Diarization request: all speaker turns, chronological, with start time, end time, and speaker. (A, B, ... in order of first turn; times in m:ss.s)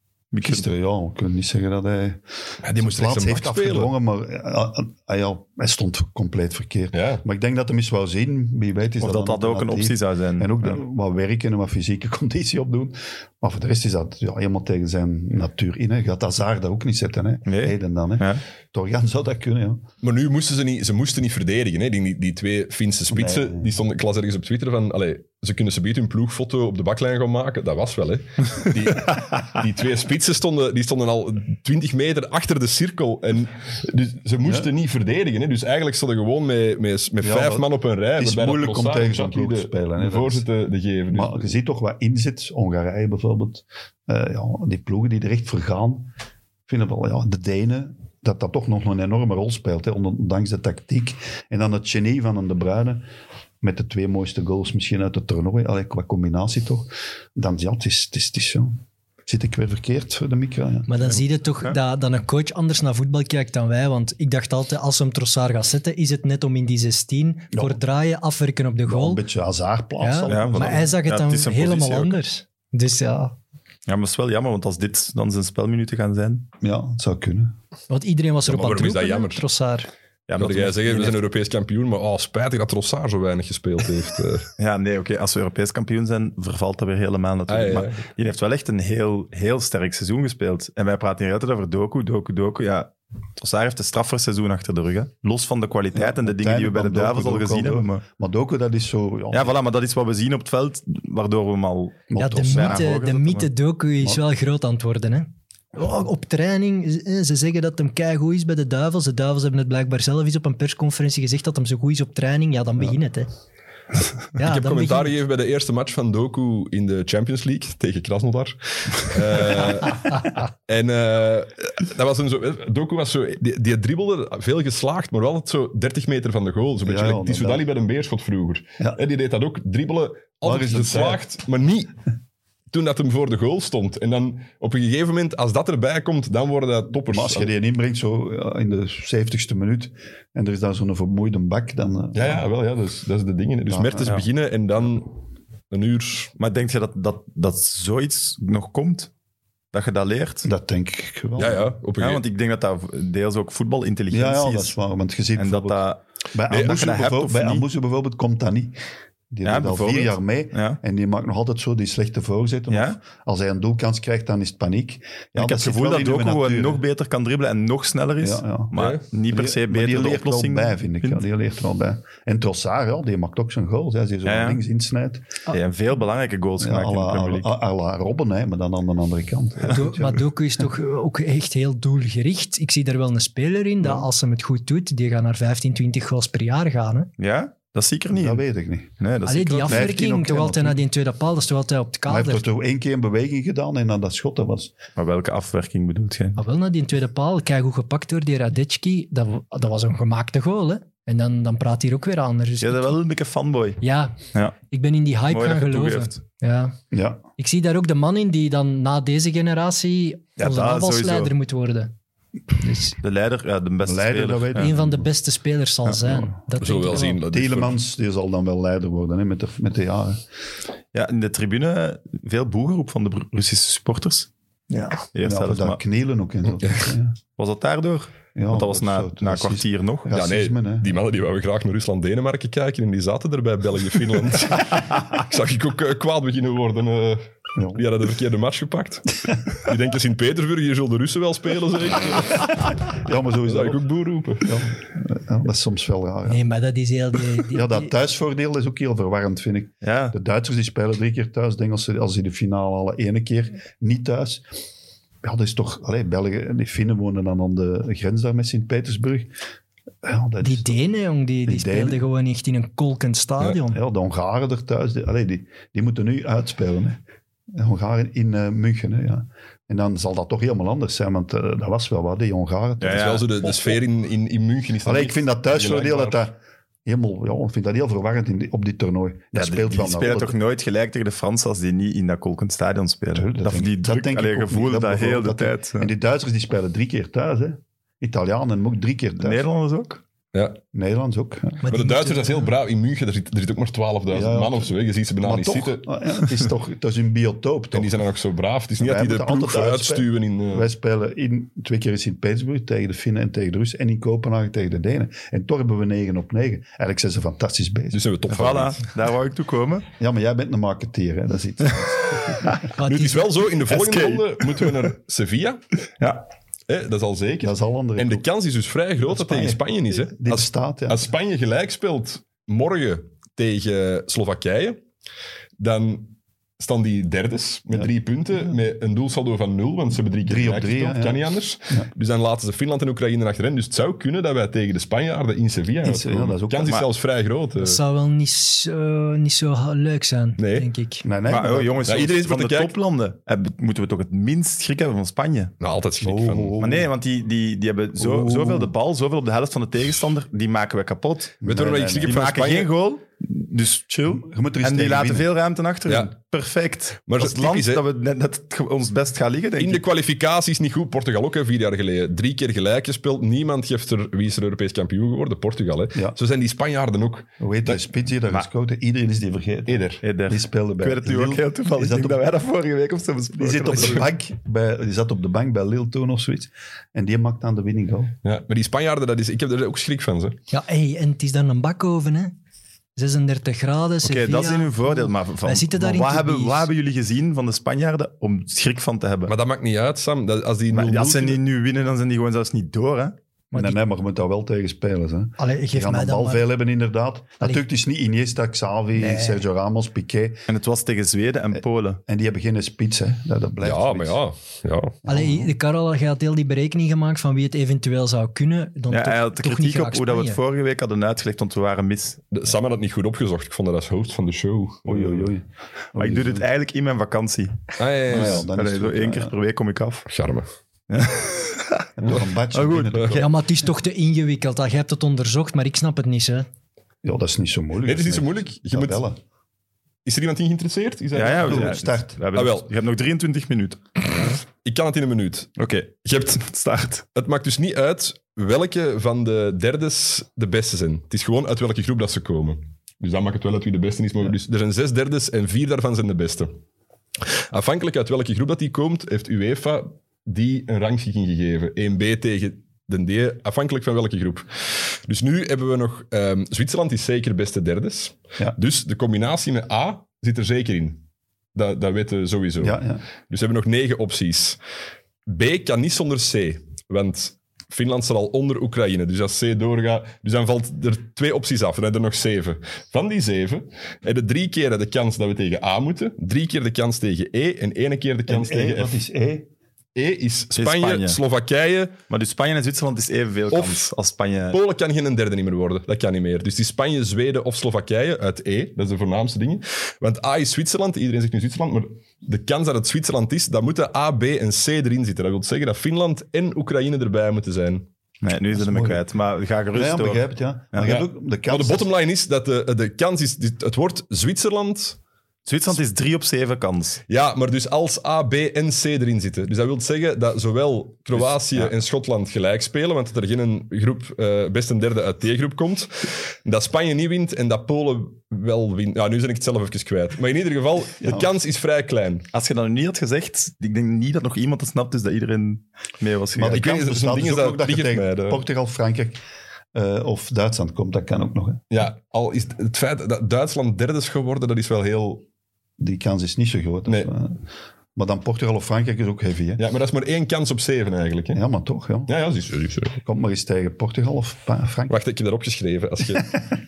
0:00.3-0:00.7 A
0:00.4-0:02.2 B
0:02.6-0:03.9 C
0:02.8-0:19.8 B
0:06.9-0:07.2 C
0:09.0-0:10.7 A
0:17.5-0:18.4 A
0:20.0-0:41.5 C
0:23.1-0:23.7 B
0:34.4-0:34.7 B
0:37.2-0:40.4 B
0:41.1-0:46.1 B
0:46.7-0:53.0 B
0:53.6-1:01.2 B
1:00.9-1:09.2 D
1:07.5-1:07.8 B
1:08.9-1:10.9 B
1:10.0-1:13.4 D
1:10.3-1:12.2 A
1:13.9-1:16.5 A
1:16.6-1:17.5 B
1:17.9-1:19.9 D
1:18.4-1:19.4 C
1:20.3-1:21.2 A
1:20.4-1:24.5 C
1:24.6-1:38.0 A
1:27.5-1:28.0 C
1:35.9-1:39.6 B
1:39.3-1:43.5 A
1:42.1-1:42.9 B
1:42.2-1:53.3 D
1:54.4-1:55.1 D
1:54.4-2:11.9 C
2:06.8-2:07.7 B
2:10.4-2:11.2 B
2:12.7-2:17.5 C
2:17.1-2:22.4 B
2:22.2-2:25.1 C
2:23.7-2:24.2 B
2:25.7-2:26.3 C
2:26.4-2:29.1 A
2:29.7-2:30.5 A
2:30.4-2:31.7 B
2:31.4-2:32.2 C
2:32.0-2:34.8 A
2:34.1-2:38.8 B
2:35.4-2:37.7 A
2:39.3-2:46.8 B
2:39.4-2:40.8 A
2:42.7-2:43.0 A
2:45.4-2:51.2 A
2:48.2-2:48.8 B
2:48.7-2:49.0 C
2:49.3-2:55.3 B
2:54.2-2:54.6 A
2:55.5-2:57.5 A
2:56.6-3:00.7 B
2:59.7-3:07.1 D
3:03.8-3:04.1 B
3:07.2-3:08.4 A
3:08.1-3:08.9 B
3:09.0-3:10.0 A
3:09.3-3:12.4 D
3:09.7-3:10.8 B
3:12.1-3:14.7 B
3:15.0-3:16.4 A
3:16.4-3:23.0 D
3:22.6-3:23.8 A
3:23.8-3:26.8 D
3:25.3-3:26.2 A
3:26.9-3:27.2 B
3:27.4-3:31.9 D
3:30.4-3:31.3 A
3:32.6-3:33.0 D
3:33.0-3:34.7 A
3:33.8-3:35.1 B
3:34.6-3:37.2 D
3:35.8-3:36.4 B
3:36.6-3:37.8 C
3:37.2-3:40.2 B
3:40.9-3:44.3 A
3:44.7-3:45.0 D
3:45.1-3:45.8 A
3:45.2-3:47.2 B
3:47.4-3:50.1 A
3:48.4-3:50.9 B
3:50.1-4:04.6 C
3:57.6-3:57.8 B
4:02.9-4:03.9 B
4:04.4-4:06.4 B
4:06.3-4:07.9 D
4:07.5-4:14.4 B
4:09.8-4:10.2 A
4:15.2-4:19.3 B
4:20.0-4:20.8 B
4:20.4-4:23.8 D
4:21.4-4:22.0 B
4:23.7-4:27.0 B
4:27.5-4:33.2 B
4:32.8-4:33.7 A
4:32.9-4:36.2 C
4:34.8-4:40.4 B
4:39.4-4:45.9 A
4:43.2-4:49.5 B
4:49.2-4:50.0 A
4:50.3-4:50.6 C
4:50.7-4:51.7 B
4:51.6-4:52.4 D
4:51.7-4:56.3 C
4:54.1-4:58.0 B
4:57.7-5:00.7 C
4:58.8-5:08.0 B
5:07.9-5:08.8 C
5:08.3-5:09.9 A
5:10.0-5:12.6 B
5:12.8-5:13.5 D
5:12.8-5:15.6 C
5:13.7-5:14.8 A
5:16.7-5:24.8 C
5:17.4-5:18.3 B
5:19.0-5:21.1 B
5:25.6-5:37.8 C
5:30.3-5:31.9 B
5:35.8-5:36.9 B
5:37.6-5:41.1 D
5:40.4-5:40.7 C
5:41.0-5:41.8 B
5:41.3-5:45.5 A
5:41.8-5:42.8 C
5:45.6-5:46.6 C
5:46.0-5:46.9 B
5:46.6-5:51.4 A
5:48.0-5:48.7 B
5:51.4-5:52.2 B
5:51.4-5:52.7 C
5:52.0-5:59.8 A
5:54.1-5:55.3 B
5:57.1-5:57.8 C
5:59.6-6:07.8 C
6:07.4-6:12.2 B
6:09.7-6:10.0 C
6:10.0-6:14.0 A
6:13.4-6:18.1 B
6:13.7-6:14.0 C
6:18.2-6:20.4 C
6:20.5-6:22.4 D
6:23.0-6:26.7 D
6:24.0-6:29.4 A
6:29.3-6:31.4 C
6:30.7-6:33.2 A
6:33.5-6:33.8 D
6:33.5-6:40.4 B
6:35.4-6:36.4 D
6:39.0-6:39.4 D
6:40.5-6:42.0 A
6:41.5-6:44.2 B
6:43.6-6:45.0 C
6:45.0-6:45.5 B
6:45.1-6:50.4 D
6:48.9-6:52.2 A
6:52.3-6:55.3 C
6:54.9-6:56.5 B
6:56.0-7:00.1 A
6:57.8-6:58.5 C
6:58.1-6:59.3 B
7:00.1-7:00.5 C
7:00.9-7:01.9 A
7:02.0-7:03.4 B
7:02.5-7:03.1 A
7:03.1-7:06.5 D
7:07.0-7:09.2 B
7:07.8-7:09.0 C
7:10.0-7:11.8 C
7:11.1-7:13.8 A
7:11.4-7:12.2 B
7:12.3-7:12.7 C
7:14.2-7:16.4 C
7:15.6-7:17.0 A
7:17.1-7:26.6 C
7:27.5-7:41.0 C
7:41.6-7:44.6 C
7:42.6-7:43.0 B
7:45.3-7:59.0 C
7:58.3-7:59.5 B
8:00.0-8:02.0 C
8:00.6-8:01.2 A
8:02.1-8:04.6 A
8:03.5-8:03.9 C
8:04.5-8:17.9 C
8:18.2-8:20.9 A
8:18.6-8:19.0 B
8:19.7-8:21.9 B
8:20.8-8:25.0 C
8:25.5-8:27.0 A
8:27.1-8:42.3 C
8:31.2-8:31.7 A
8:41.0-8:41.3 B
8:42.3-8:46.7 A
8:46.4-8:49.2 B
8:46.5-8:48.4 C
8:49.7-8:51.6 B
8:51.7-8:55.2 C
8:55.8-8:57.4 B
8:58.0-8:59.6 B
8:59.6-9:01.4 C
9:01.3-9:02.1 B
9:02.1-9:03.0 C
9:03.0-9:05.0 B
9:04.9-9:06.3 C